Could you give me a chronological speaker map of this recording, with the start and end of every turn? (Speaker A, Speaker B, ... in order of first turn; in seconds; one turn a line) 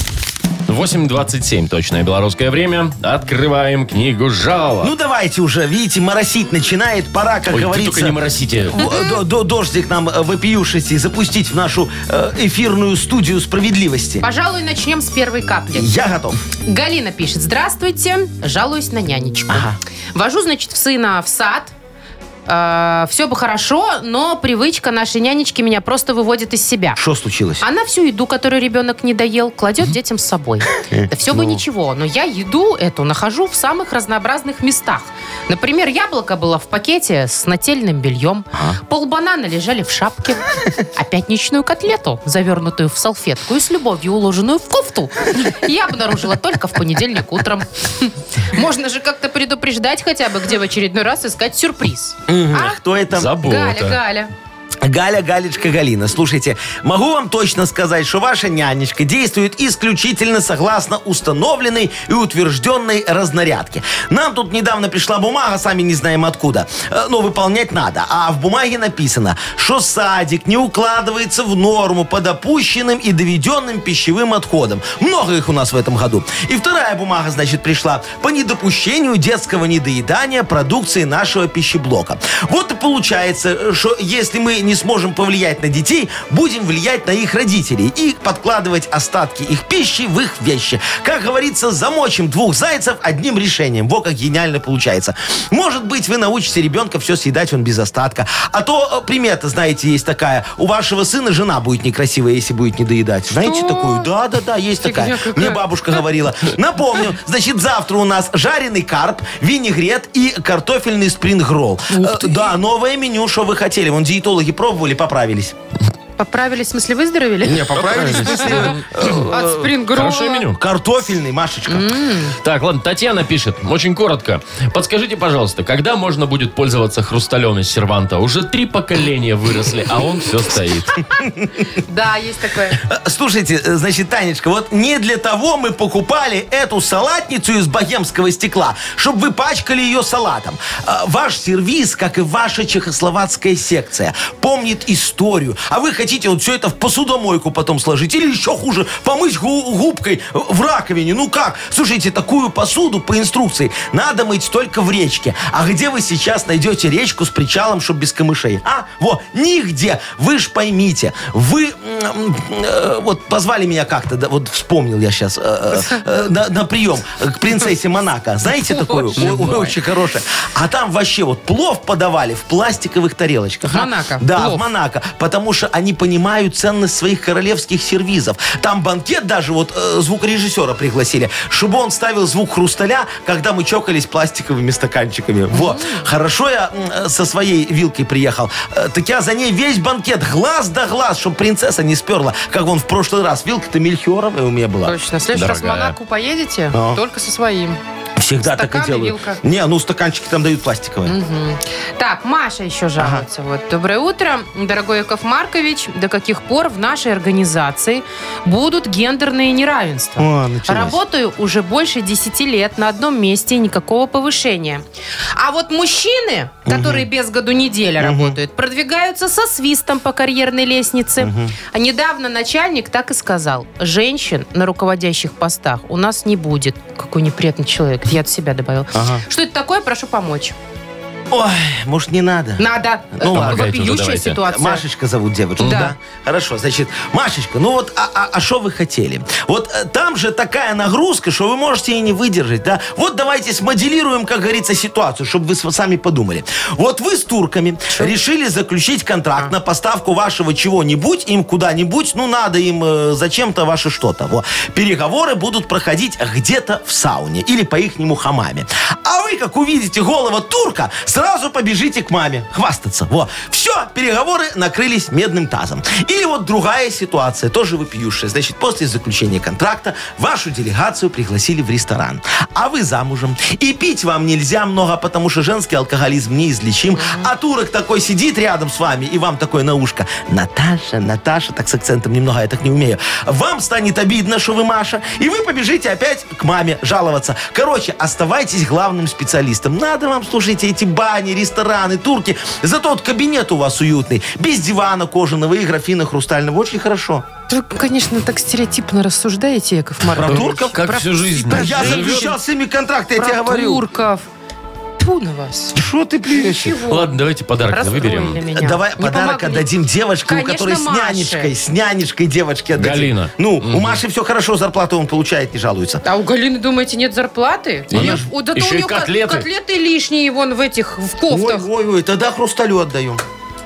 Speaker A: 0.7-4.9
Speaker B: 4.8-8.2
Speaker A: 7.5-8.8
Speaker B: 8.7-14.2
Speaker C: 8.8-9.1
Speaker C: 14.2-15.9
Speaker B: 15.7-16.4
Speaker C: 16.6-21.7
Speaker B: 19.5-19.8
Speaker C: 22.5-27.0
Speaker B: 27.0-27.6
Speaker C: 27.6-52.8
Speaker B: 30.9-31.6
Speaker B: 52.3-53.4
Speaker A: 53.1-54.0
Speaker C: 53.4-54.3
Speaker B: 54.8-115.6
Speaker C: 103.3-104.1
Speaker C: 104.8-105.7
Speaker C: 111.9-112.5
Speaker C: 116.2-118.8
Speaker B: 117.4-119.7
Speaker A: 117.7-119.2
Speaker C: 119.3-120.5
Speaker A: 119.9-120.6
Speaker B: 120.6-122.0
Speaker C: 121.7-122.4
Speaker A: 122.4-131.0
Speaker B: 131.2-131.5
Speaker C: 131.7-132.8
Speaker B: 132.8-195.0
Speaker C: 168.6-169.8
Speaker C: 173.7-174.6
Speaker C: 185.5-186.1
Speaker C: 194.8-197.8
Speaker A: 195.3-195.9
Speaker B: 196.7-197.0
Speaker B: 198.2-201.2
Speaker C: 198.4-199.4
Speaker C: 201.1-214.8
Speaker B: 203.0-203.2
Speaker B: 210.2-211.0
Speaker C: 215.4-230.6
Speaker B: 216.7-217.1
Speaker B: 218.0-218.4
Speaker B: 221.2-221.6
Speaker B: 228.9-229.2
Speaker B: 231.3-233.7
Speaker C: 232.6-234.8
Speaker A: 233.3-234.4
Speaker B: 234.4-297.2
Speaker C: 235.6-235.9
Speaker C: 277.0-277.3
Speaker C: 297.5-302.3
Speaker B: 300.1-300.8
Speaker A: 300.2-302.3
Speaker B: 301.5-303.8
Speaker C: 303.2-304.3
Speaker C: 305.0-305.8
Speaker B: 305.8-306.8
Speaker C: 306.3-307.1
Speaker A: 306.9-308.4
Speaker C: 307.7-309.7
Speaker B: 308.5-316.0
Speaker C: 310.3-311.5
Speaker A: 312.8-314.0
Speaker C: 316.0-321.7
Speaker B: 317.9-318.2
Speaker A: 317.9-319.5
Speaker B: 321.3-323.2